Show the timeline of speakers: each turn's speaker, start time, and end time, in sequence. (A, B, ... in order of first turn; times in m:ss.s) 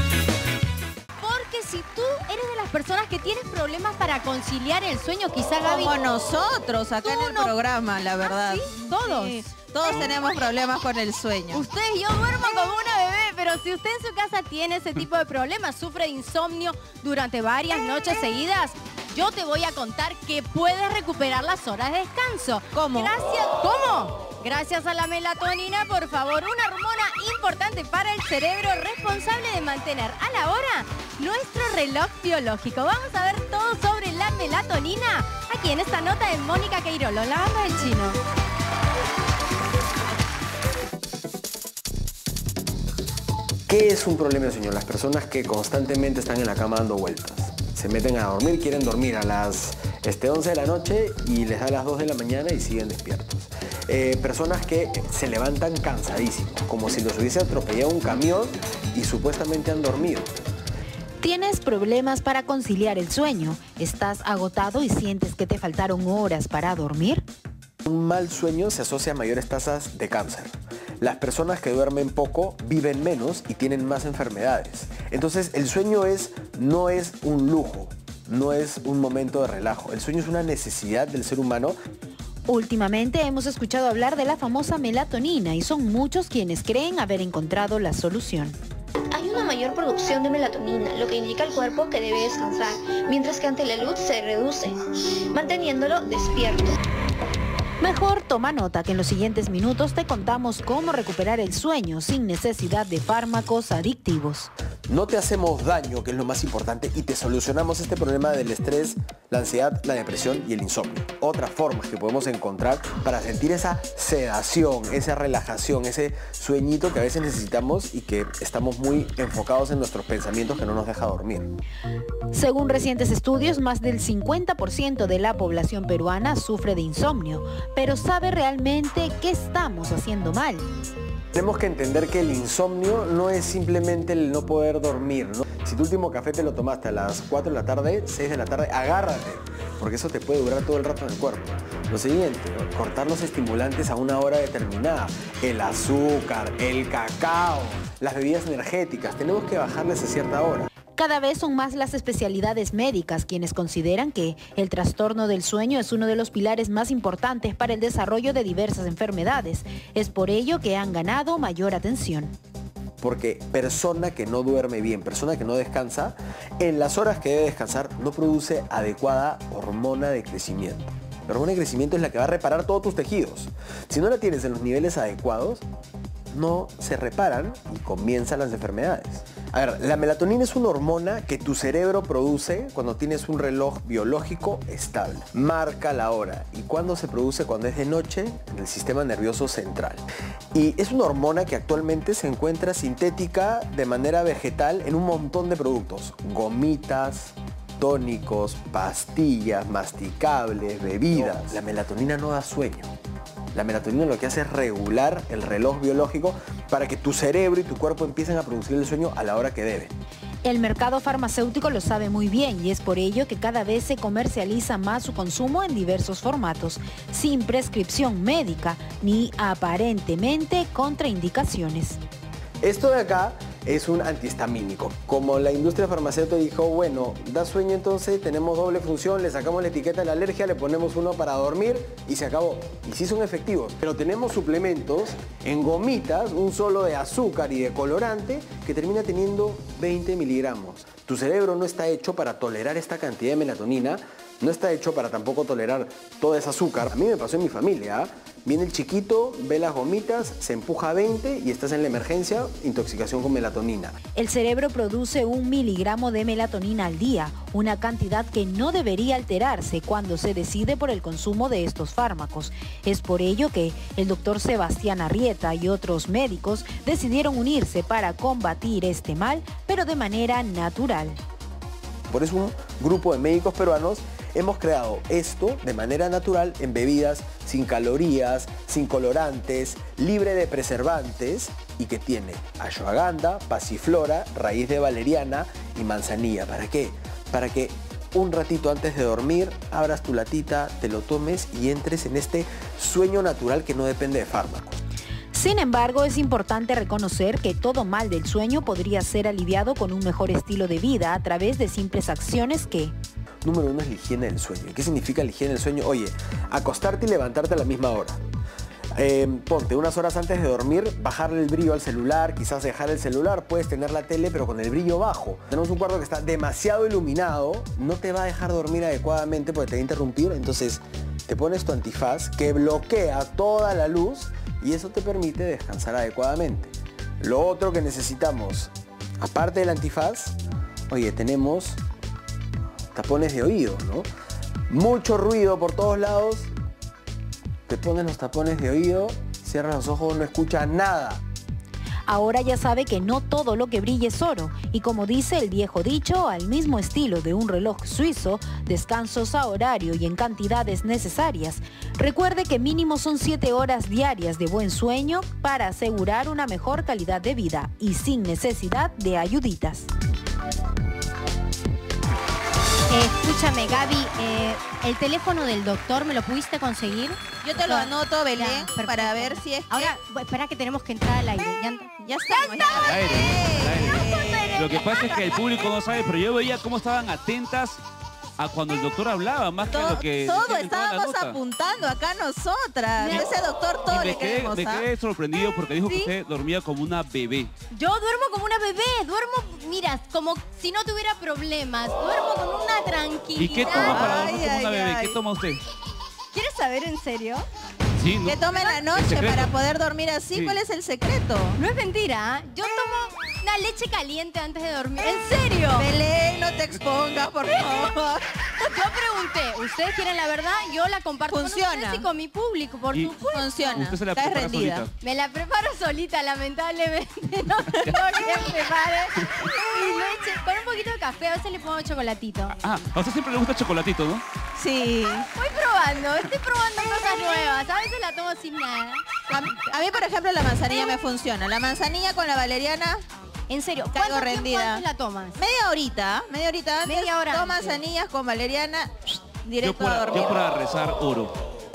0:01.2-0:05.9 A
0:05.6-0:11.6 B
0:07.0-0:07.5 A
0:08.2-0:10.1 A
0:11.5-0:38.2 A
0:22.7-0:23.1 B
0:43.7-1:00.3 C
1:01.2-1:07.2 D
1:07.8-1:21.8 C
1:22.5-1:28.6 D
1:29.1-1:34.8 E
1:35.3-1:36.8 E
1:37.8-1:44.5 D
1:44.9-2:01.5 C
2:02.3-2:10.7 D
2:11.3-2:30.7 C
2:31.0-2:42.3 D
2:43.0-2:55.6 C
2:56.3-3:10.0 C
3:10.5-3:22.9 C
3:23.5-3:30.0 C
3:30.4-3:42.0 D
3:42.6-4:14.0 C
4:14.2-4:31.2 D
4:32.1-4:54.8 C
4:55.3-5:02.9 D
5:03.4-5:08.2 C
5:09.0-5:30.4 C
5:30.9-5:31.8 C
5:32.9-5:34.1 C
5:34.7-5:36.5 C
5:37.7-5:41.2 C
5:42.1-5:59.9 D
6:02.9-6:14.8 A
6:07.4-6:10.0 B
6:12.0-6:15.4 B
6:12.8-6:17.8 F
6:18.4-6:21.4 F
6:19.7-6:24.9 B
6:23.0-6:23.3 A
6:23.8-6:27.5 F
6:25.9-6:26.1 A
6:27.7-6:34.3 A
6:33.4-6:35.6 F
6:33.6-6:35.2 B
6:36.3-6:37.5 A
6:38.0-6:39.5 F
6:38.2-6:41.6 B
6:38.5-6:38.8 A
6:40.3-6:40.6 F
6:41.6-6:45.9 A
6:45.7-6:48.2 B
6:47.4-6:47.9 A
6:48.6-6:53.9 A
6:51.3-6:52.1 B
6:52.9-6:53.2 F
6:53.3-6:54.9 B
6:53.7-6:54.9 F
6:55.0-7:02.6 A
6:57.7-6:58.2 B
6:59.2-6:59.5 F
7:02.6-7:04.2 F
7:04.6-7:05.3 B
7:05.1-7:09.8 A
7:09.3-7:13.0 B
7:10.6-7:11.0 A
7:13.5-7:15.4 A
7:13.9-7:14.8 B
7:15.4-7:20.6 B
7:16.8-7:17.8 A
7:19.6-7:21.4 F